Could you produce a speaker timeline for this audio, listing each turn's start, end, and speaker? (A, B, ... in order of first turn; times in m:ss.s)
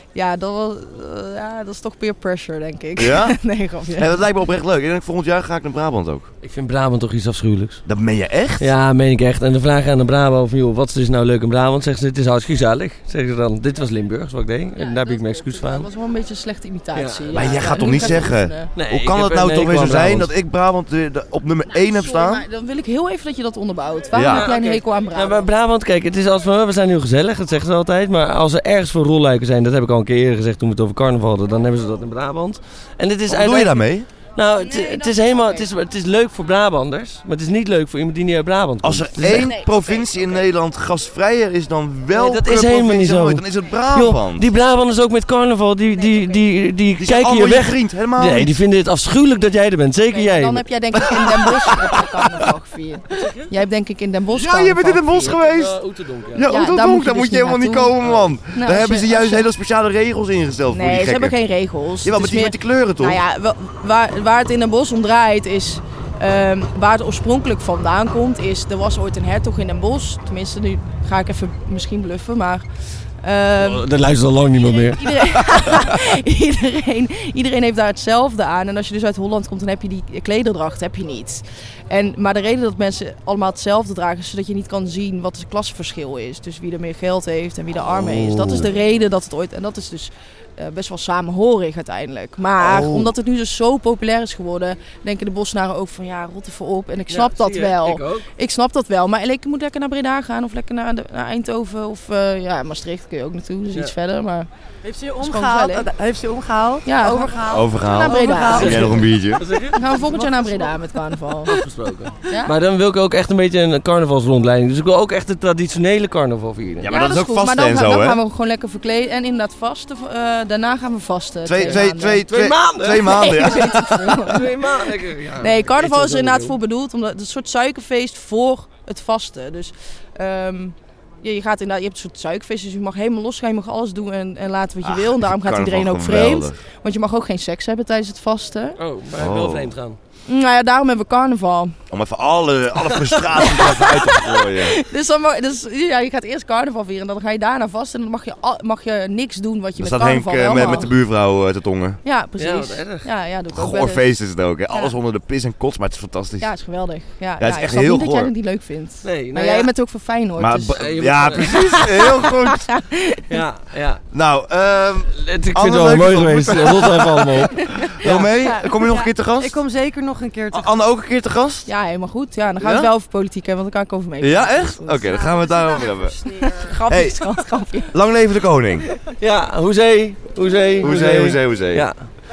0:00.1-0:04.2 A
0:03.0-0:06.3 B
0:06.4-0:07.8 C
0:07.9-0:08.7 B
0:08.6-0:15.9 C
0:14.8-0:18.7 A
0:17.0-0:17.5 C
0:17.3-0:22.4 B
0:18.8-0:20.3 C
0:21.7-0:25.5 A
0:24.1-0:24.5 B
0:24.2-0:39.6 C
0:33.3-0:34.1 B
0:34.6-0:35.7 A
0:38.8-0:44.5 B
0:39.3-0:39.9 A
0:42.1-0:50.6 C
0:46.0-0:46.4 A
0:47.0-0:48.6 B
0:50.1-0:55.3 A
0:51.0-0:52.4 B
0:53.2-0:53.5 C
0:54.3-0:55.8 B
0:55.2-0:56.5 C
0:56.3-1:01.4 B
0:56.5-0:59.5 A
1:00.7-1:12.6 A
1:02.0-1:03.2 B
1:13.2-1:13.9 A
1:13.6-1:16.0 C
1:14.9-1:44.5 A
1:32.6-1:33.1 B
1:37.1-1:38.3 C
1:44.8-1:49.1 D
1:45.2-1:45.9 A
1:46.8-1:48.8 A
1:47.5-1:49.4 B
1:48.6-1:49.8 C
1:49.7-1:51.5 A
1:49.8-1:50.8 D
1:51.5-1:56.9 C
1:52.3-1:52.5 A
1:56.8-1:58.2 B
1:56.9-2:02.2 A
2:01.4-2:04.1 B
2:01.6-2:06.5 C
2:03.0-2:04.8 A
2:05.4-2:18.8 A
2:14.8-2:16.6 B
2:18.8-2:20.0 C
2:19.2-2:19.7 B
2:20.3-2:21.8 A
2:21.9-2:24.8 B
2:22.9-2:30.9 A
2:29.8-2:32.0 B
2:32.0-2:34.1 A
2:32.4-2:33.1 C
2:33.5-2:36.5 B
2:36.4-2:40.8 A
2:37.4-2:38.3 B
2:39.0-2:39.7 C
2:40.4-2:42.7 B
2:40.8-2:41.8 C
2:41.4-2:43.4 A
2:43.3-2:44.0 C
2:44.1-2:49.6 B
2:45.2-2:48.2 C
2:47.7-2:48.1 A
2:48.6-2:50.7 D
2:50.5-2:51.7 B
2:51.7-2:55.3 A
2:52.6-2:52.9 B
2:54.2-2:56.3 B
2:55.1-2:56.7 D
2:56.4-2:57.9 A
2:56.9-2:58.9 B
2:59.2-3:01.9 C
3:00.8-3:01.9 B